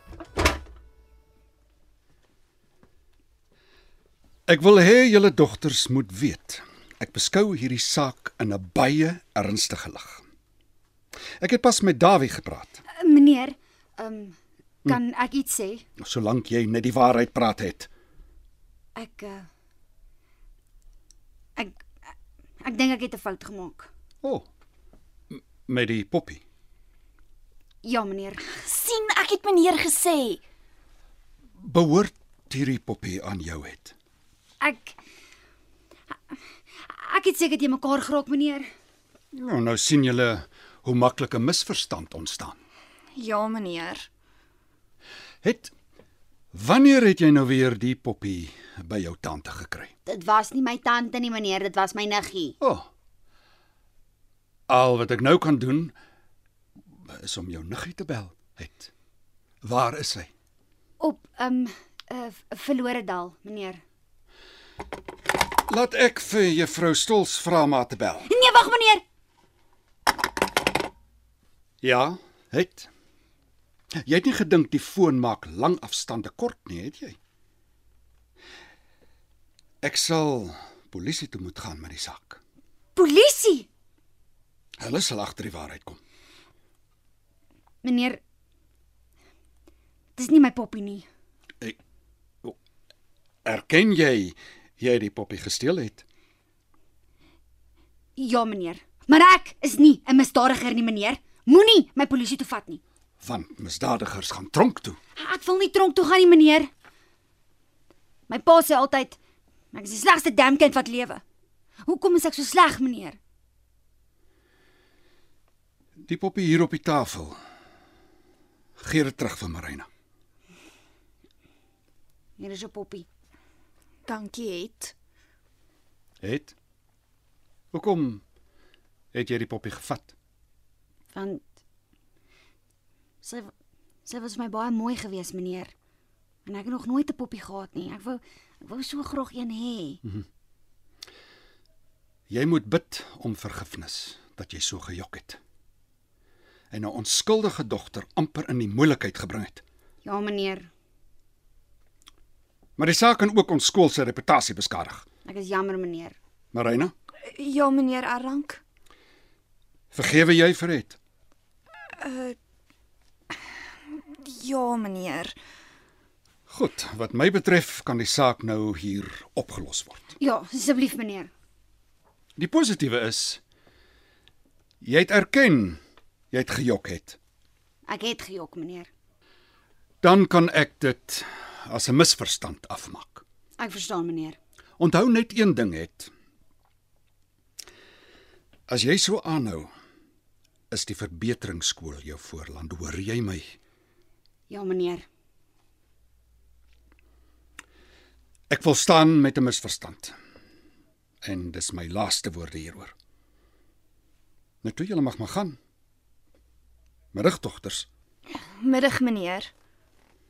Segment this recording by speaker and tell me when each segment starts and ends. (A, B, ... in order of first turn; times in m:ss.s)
0:04.5-0:10.2 A
0:11.4-0:12.8 A
0:13.0-0:15.8 B
0:16.0-0:17.9 A
0:19.0-0:19.5 B
0:22.6-0:23.9 B
0:24.2-0:24.5 A
0:25.3-0:26.4 A
0:27.8-0:28.4 B
0:28.5-0:30.4 C
0:31.6-0:34.0 A
0:34.6-0:35.0 B
0:36.8-0:38.7 B
0:39.3-0:42.6 A
0:43.2-0:44.1 C
0:45.4-0:45.7 A
0:46.5-0:49.9 A
0:50.1-0:52.6 B
0:52.6-0:52.9 A
0:54.7-0:56.0 A
0:57.0-0:58.9 A
0:59.6-1:00.3 A
1:01.0-1:03.8 B
1:05.7-1:08.3 A
1:08.3-1:09.0 B
1:11.8-1:12.9 A
1:14.0-1:17.2 A
1:19.8-1:22.4 A
1:23.0-1:23.7 B
1:24.8-1:26.0 A
1:27.8-1:28.2 B
1:30.2-1:31.1 B
1:33.4-1:36.0 A
1:38.2-1:42.8 B
1:43.2-1:45.0 A
1:45.2-1:46.7 B
1:48.3-1:49.2 B
1:49.7-1:51.2 B
1:51.8-1:53.2 B
1:56.0-1:57.4 A
1:58.8-1:59.9 A
2:02.4-2:03.1 B
2:04.1-2:04.9 C
2:06.2-2:06.5 A
2:07.7-2:08.2 A
2:09.1-2:10.1 A
2:11.1-2:11.4 B
2:13.2-2:13.5 B
2:14.1-2:15.7 B
2:16.4-2:20.0 B
2:22.3-2:25.4 A
2:26.7-2:29.6 A
2:30.0-2:30.7 B
2:32.8-2:35.0 A
2:35.2-2:36.2 B
2:36.5-2:36.9 A
2:37.2-2:38.6 C
2:39.9-2:41.0 A
2:42.0-2:42.4 C
2:43.9-2:45.4 C
2:46.5-2:50.1 A
2:50.2-2:51.3 B
2:52.4-2:53.4 A
2:54.8-2:55.8 A
2:56.3-2:57.2 A
2:57.9-2:58.9 B
3:00.0-3:03.2 A
3:03.6-3:04.4 B
3:04.8-3:06.1 A
3:08.7-3:09.7 A
3:10.7-3:13.6 A
3:14.5-3:15.1 B
3:18.5-3:20.2 A
3:21.2-3:22.9 A
3:24.6-3:25.6 A
3:27.1-3:27.9 A
3:28.3-3:29.5 C